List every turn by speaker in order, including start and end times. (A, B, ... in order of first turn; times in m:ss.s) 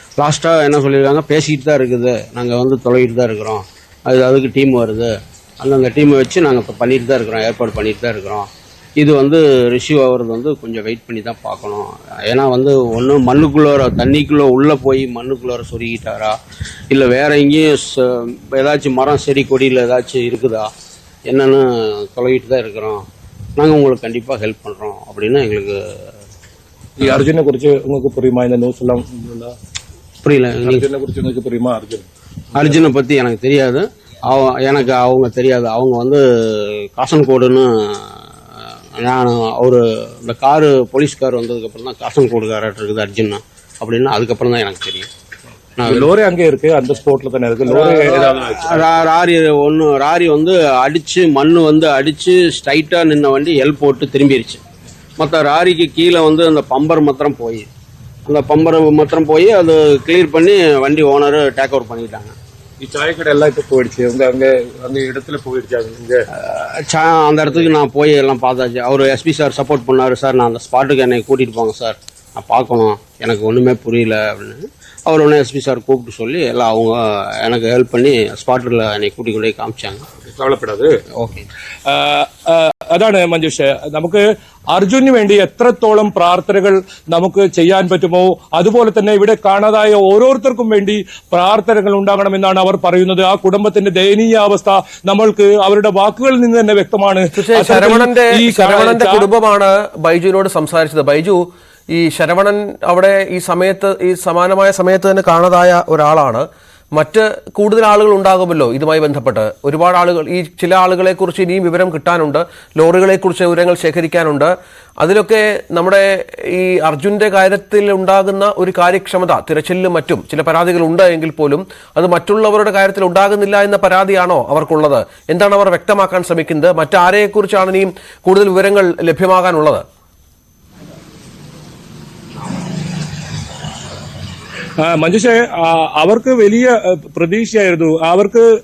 0:00.2-0:08.5 A
0:09.0-0:16.4 A
0:16.9-0:20.7 A
0:21.3-0:23.0 A
0:23.6-0:26.1 A
0:27.0-0:29.5 B
0:30.2-0:30.8 A
0:30.6-0:32.9 B
0:32.6-0:38.2 A
0:39.0-0:45.1 A
0:45.8-0:46.1 A
0:45.8-0:48.9 B
0:47.6-0:54.6 A
0:55.2-0:57.7 A
0:58.2-1:02.3 A
1:02.8-1:06.2 B
1:06.3-1:20.0 A
1:20.2-1:21.0 B
1:21.2-1:21.5 A
1:21.8-1:39.3 B
1:37.3-2:09.8 C
2:14.8-2:18.4 B